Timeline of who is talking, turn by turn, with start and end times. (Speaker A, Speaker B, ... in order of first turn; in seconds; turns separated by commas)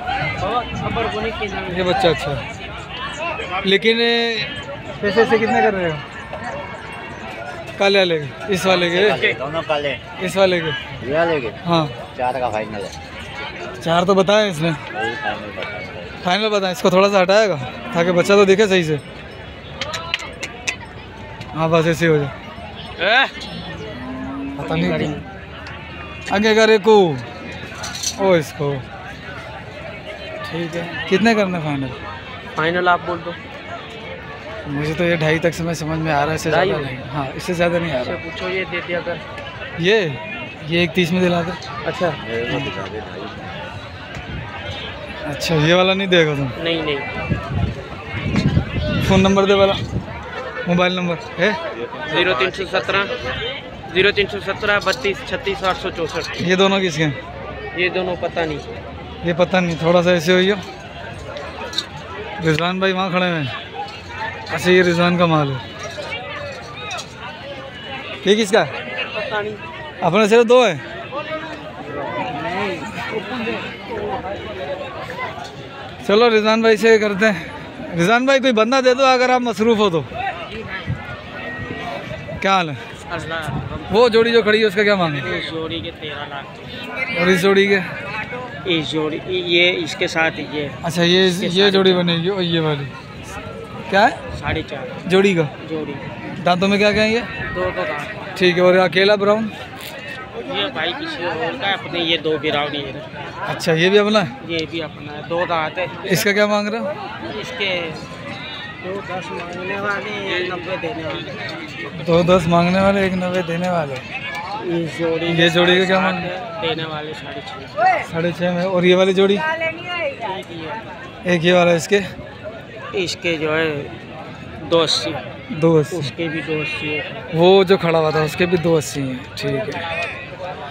Speaker A: 0.4-1.9, Speaker B: 1.7-2.4, Speaker B: 3.6-6.0, Speaker B: 7.8-9.3, Speaker C: 8.8-10.0, Speaker B: 10.2-10.8, Speaker C: 11.0-11.6, Speaker B: 11.6-11.9, Speaker C: 12.1-12.9, Speaker B: 13.8-14.8, Speaker C: 14.9-16.1, Speaker B: 16.2-19.0, Speaker B: 21.5-22.3, Speaker A: 23.0-23.3, Speaker B: 24.6-25.1, Speaker A: 24.7-25.2, Speaker B: 26.3-27.2, Speaker B: 28.2-28.8, Speaker B: 30.4-32.0, Speaker A: 32.6-33.4, Speaker B: 34.6-38.2, Speaker A: 36.5-36.8, Speaker A: 38.0-39.2, Speaker B: 39.8-41.6, Speaker A: 41.9-42.2, Speaker C: 42.2-43.5, Speaker B: 45.2-46.5, Speaker A: 46.6-47.0, Speaker B: 49.0-49.8, Speaker B: 50.6-51.6, Speaker A: 52.1-53.1, Speaker A: 53.9-56.3, Speaker B: 56.4-57.2, Speaker A: 57.7-58.6, Speaker B: 59.2-60.6, Speaker B: 62.4-63.5, Speaker B: 64.5-65.6, Speaker B: 68.2-68.7, Speaker A: 69.0-69.6, Speaker B: 70.0-70.8, Speaker B: 76.0-80.1, Speaker B: 82.4-82.8, Speaker A: 83.1-83.9, Speaker B: 83.9-85.3, Speaker A: 85.1-86.9, Speaker B: 87.1-87.8, Speaker A: 88.6-92.0, Speaker B: 90.8-92.9, Speaker B: 93.9-94.2, Speaker A: 94.3-95.0, Speaker B: 95.0-95.5, Speaker A: 95.6-96.0, Speaker B: 96.4-97.3, Speaker A: 97.5-98.2, Speaker B: 98.3-99.5, Speaker A: 100.4-103.1, Speaker B: 103.5-104.3, Speaker A: 104.4-106.0, Speaker B: 106.0-106.9, Speaker A: 107.3-108.0, Speaker A: 108.8-111.4, Speaker B: 111.9-114.0, Speaker A: 114.6-117.8, Speaker B: 115.3-116.3, Speaker B: 118.0-119.4, Speaker A: 120.2-120.8, Speaker B: 121.2-122.0, Speaker A: 122.9-123.9, Speaker A: 124.6-125.2, Speaker B: 125.5-126.1, Speaker A: 125.9-127.1, Speaker B: 127.3-129.8